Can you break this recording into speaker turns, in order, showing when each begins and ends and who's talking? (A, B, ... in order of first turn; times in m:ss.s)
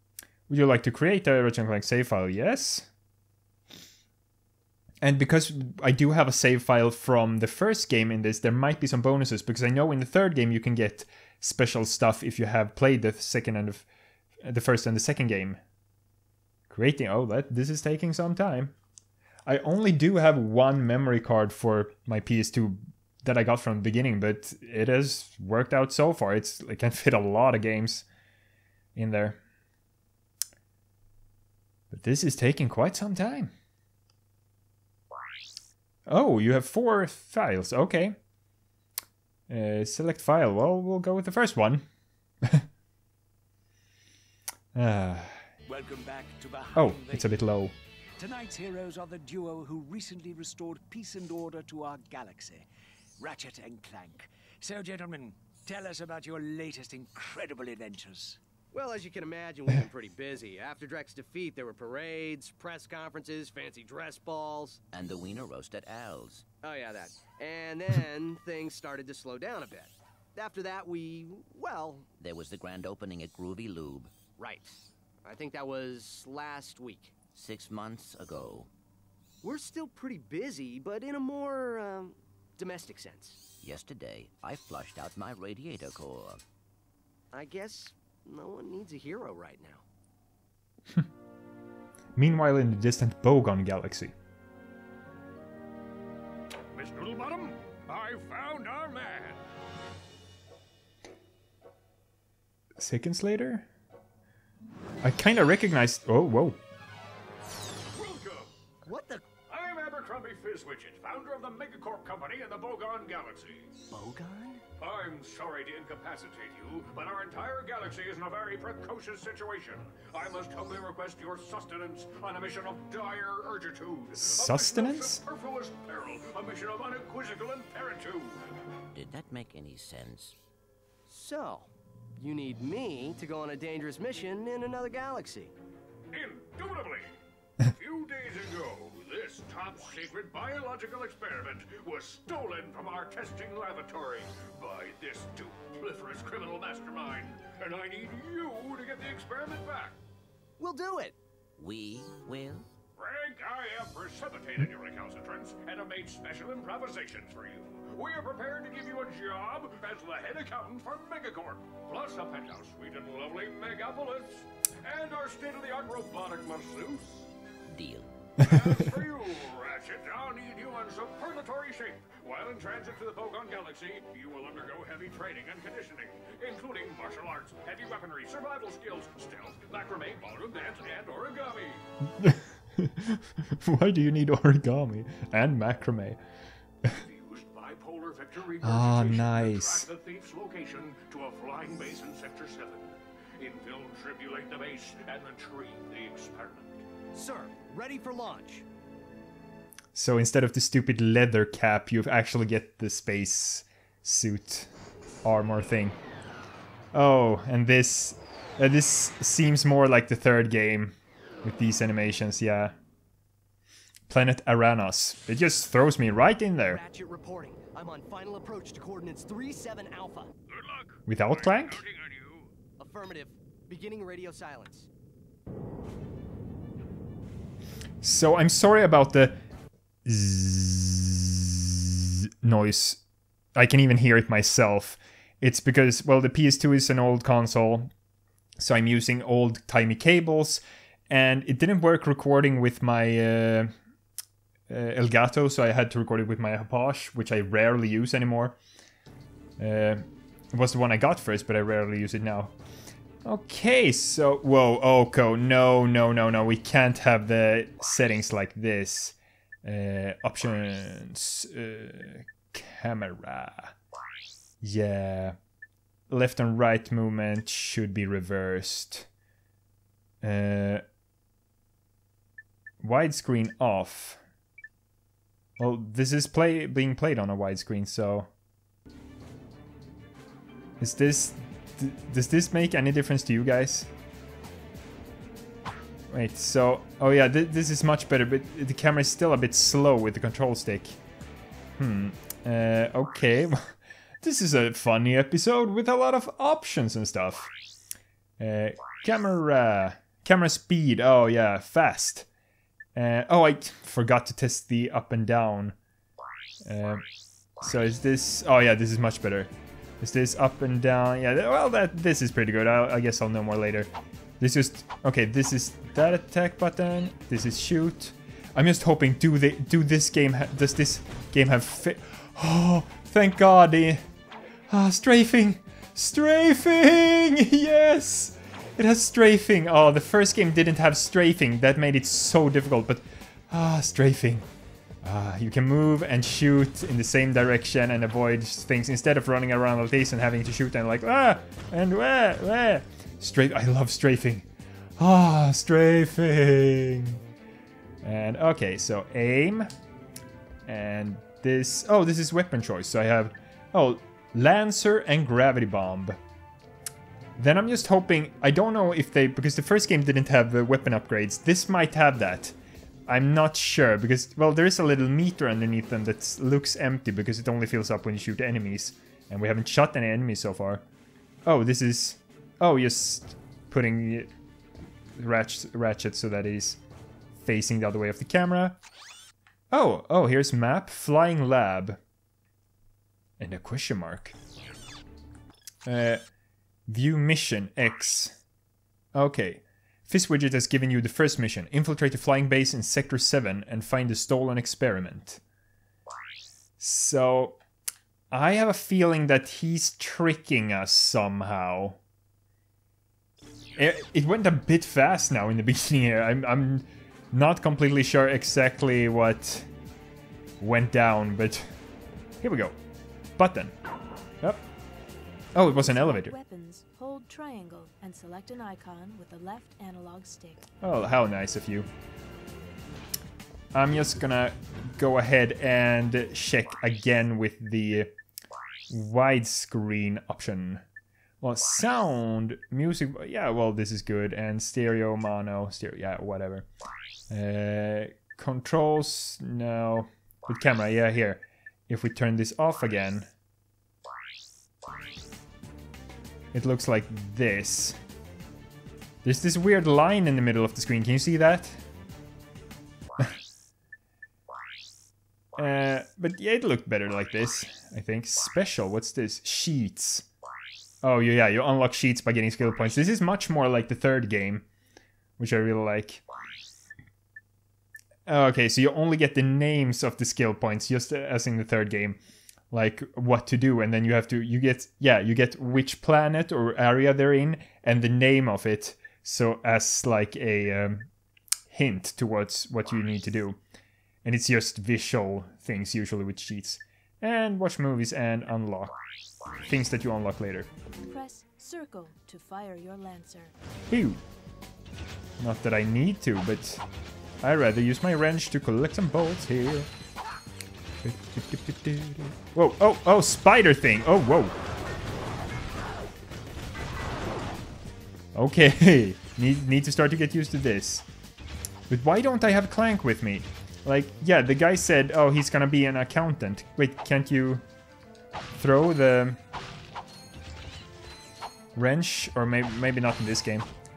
0:00.5-0:02.9 A
0:05.0-0:13.9 A
0:14.4-0:15.6 A
0:16.7-0:18.7 A
0:19.4-0:28.0 A
0:29.0-0:29.4 A
0:31.9-0:33.5 A
0:36.1-0:38.2 A
0:39.5-0:41.8 A
0:44.7-0:45.4 A
0:45.7-0:47.3 B
0:46.7-0:47.7 A
0:48.2-0:52.7 B
0:53.2-0:58.4 B
0:58.7-1:04.8 C
1:04.9-1:06.4 D
1:06.6-1:12.1 C
1:12.2-1:14.1 D
1:14.4-1:17.1 C
1:17.3-1:18.7 D
1:19.4-1:23.4 C
1:23.6-1:26.4 D
1:27.3-1:29.8 C
1:32.1-1:34.1 A
1:36.7-1:39.4 E
1:42.8-1:43.7 A
1:45.0-1:46.6 A
1:47.9-1:48.5 E
1:48.8-1:49.2 C
1:49.5-1:53.7 E
1:53.9-1:54.6 C
1:54.8-2:08.4 E
2:04.2-2:05.2 A
2:08.9-2:10.4 D
2:11.1-2:15.5 C
2:16.1-2:30.0 E
2:30.6-2:31.2 C
2:31.6-2:32.7 D
2:33.0-2:47.2 E
2:47.7-2:48.1 D
2:48.4-3:01.8 E
3:02.2-3:06.2 A
3:06.9-3:16.8 E
3:08.6-3:09.9 A
3:17.1-3:18.6 C
3:19.9-3:24.7 A
3:25.2-3:26.0 A
3:26.9-3:32.7 A
3:34.1-3:36.8 A
3:36.6-3:40.3 C
3:40.5-3:42.5 E
3:41.1-3:41.8 A
3:42.8-3:44.9 C
3:48.0-3:49.4 A
3:50.0-3:53.0 A
3:53.6-3:57.9 A
3:58.6-4:03.7 A
4:04.7-4:08.6 A
4:09.6-4:12.5 A
4:13.2-4:23.7 A
4:24.6-4:25.4 A
4:26.1-4:29.1 A
4:30.2-4:30.8 A
4:32.8-4:34.2 A
4:35.6-4:38.3 A
4:40.8-4:43.9 A
4:46.1-4:51.0 A
4:51.8-4:57.5 A
4:58.4-5:02.3 A
5:03.0-5:05.8 A
5:06.6-5:07.0 A
5:07.6-5:24.0 A
5:24.7-5:34.5 A
5:35.0-5:47.2 A
5:48.0-5:49.7 A
5:50.6-5:56.2 A
5:57.4-6:02.6 A
6:03.1-6:10.8 A
6:11.4-6:14.3 A
6:15.2-6:16.8 A
6:17.4-6:18.8 A
6:19.7-6:22.0 A
6:23.4-6:24.4 A
6:25.8-6:26.2 A
6:26.9-6:28.4 A
6:29.1-6:35.4 A
6:36.8-6:37.6 A
6:38.3-6:42.0 A
6:43.8-6:49.7 A
6:50.6-6:51.6 A
6:52.4-6:52.8 A
6:53.4-6:53.7 A
6:55.5-6:56.3 A
6:55.6-7:00.6 F
7:00.8-7:01.9 A
7:03.7-7:08.1 A
7:08.9-7:10.8 A
7:11.4-7:16.7 A
7:17.3-7:23.3 A
7:26.5-7:28.0 A
7:29.2-7:31.8 A
7:35.6-7:40.2 A
7:41.0-7:44.6 A
7:45.4-7:46.2 A
7:48.3-7:52.2 A
7:52.7-8:01.1 A
8:01.7-8:03.6 A
8:04.2-8:09.0 A
8:09.6-8:10.7 A
8:11.0-8:13.5 F
8:13.9-8:14.2 A
8:15.4-8:16.8 A
8:17.4-8:19.9 A
8:21.0-8:24.6 A
8:28.3-8:31.1 A
8:31.9-8:37.6 A
8:38.5-8:39.4 A
8:41.8-8:43.7 A